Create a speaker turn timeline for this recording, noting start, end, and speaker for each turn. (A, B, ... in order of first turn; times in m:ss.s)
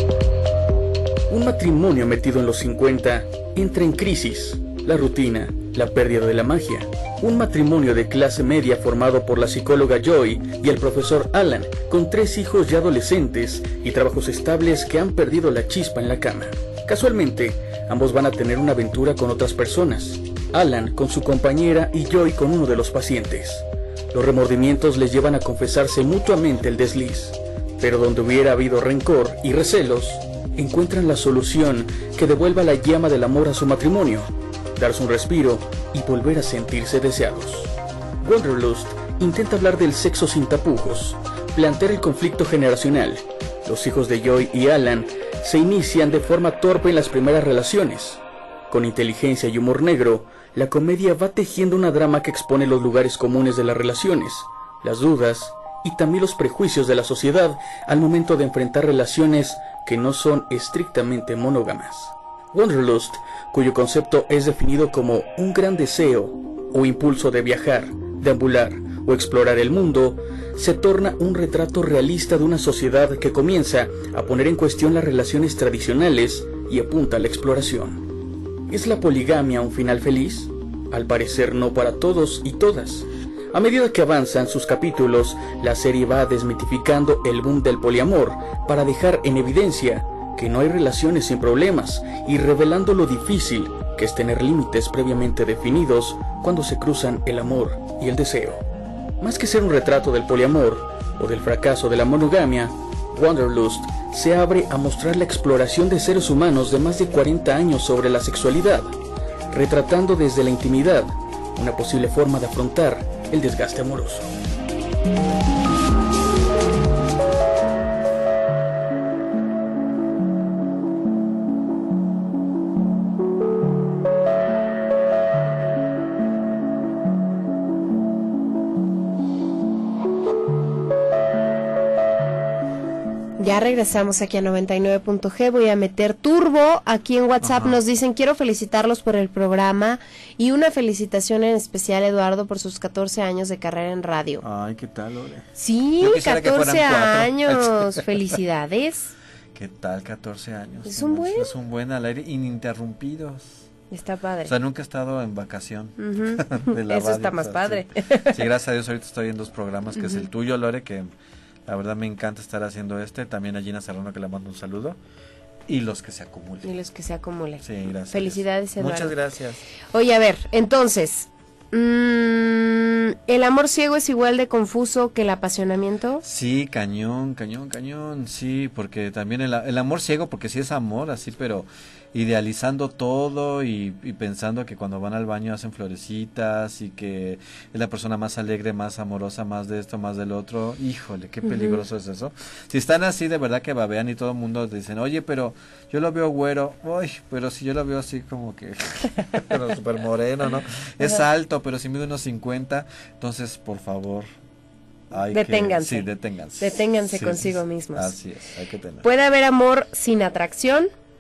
0:01.3-1:18.0 A
1:18.7-1:38.6 A
1:39.2-1:48.9 A
1:49.5-1:54.3 A
2:13.4-2:24.4 B
2:17.4-2:17.8 C
2:24.4-2:25.5 C
2:25.6-2:29.1 B
2:26.0-2:28.2 C
2:29.5-2:33.7 C
2:30.8-2:31.5 B
2:33.9-2:34.5 B
2:34.4-2:41.1 C
2:36.0-2:38.4 B
2:40.0-2:40.2 B
2:41.7-2:45.0 C
2:45.7-2:46.7 C
2:46.6-2:49.2 B
2:47.6-2:49.6 C
2:49.9-2:56.2 B
2:56.2-3:24.3 C
3:11.4-3:11.8 B
3:25.1-3:29.1 C
3:25.3-3:26.1 B
3:26.6-3:28.2 B
3:29.0-3:30.9 B